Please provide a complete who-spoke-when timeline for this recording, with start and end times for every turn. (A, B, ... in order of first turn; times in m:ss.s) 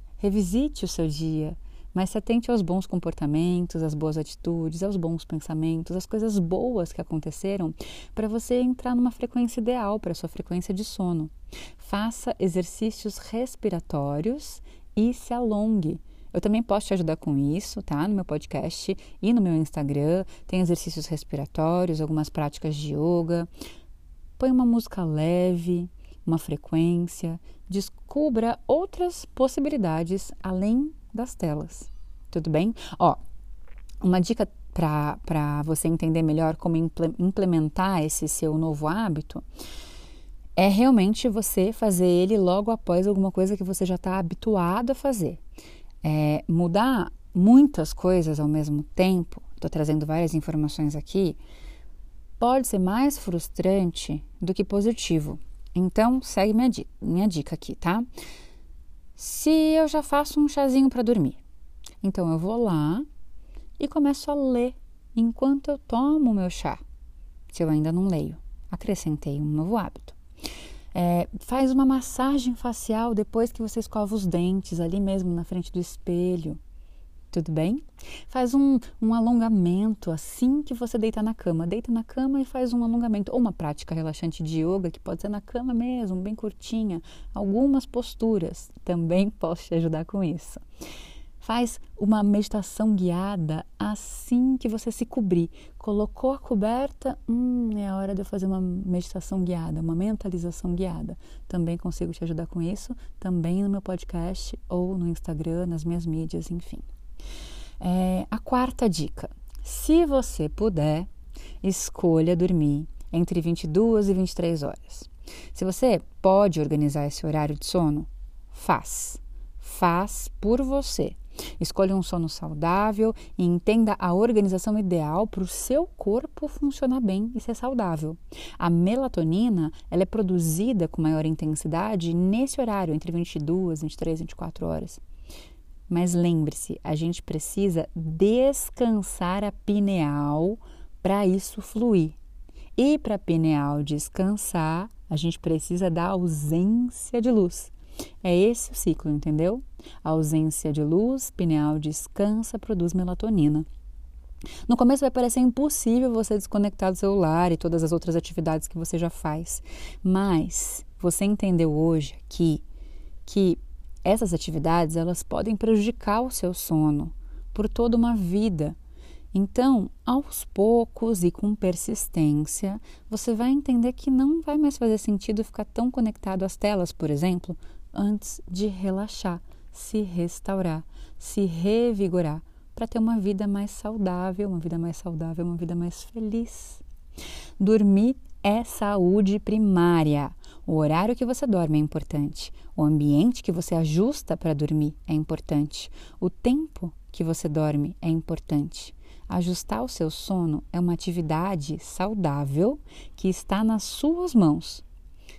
0:00.2-0:23.5 A
0:24.4-0:33.2 A
0:34.0-0:39.4 A
0:40.6-0:45.4 A
0:46.0-0:51.4 A
0:52.4-0:58.1 A
0:59.2-1:01.4 A
1:02.0-1:03.1 A
1:03.8-1:06.8 A
1:07.5-1:10.2 A
1:10.9-1:16.6 A
1:17.3-1:30.6 A
1:31.4-1:46.8 A
1:47.8-1:51.1 A
1:51.6-2:15.0 A
2:15.9-2:22.2 A
2:22.8-2:33.6 A
2:34.7-2:42.6 A
2:43.2-2:48.8 A
2:49.3-3:06.8 A
3:07.6-3:24.8 A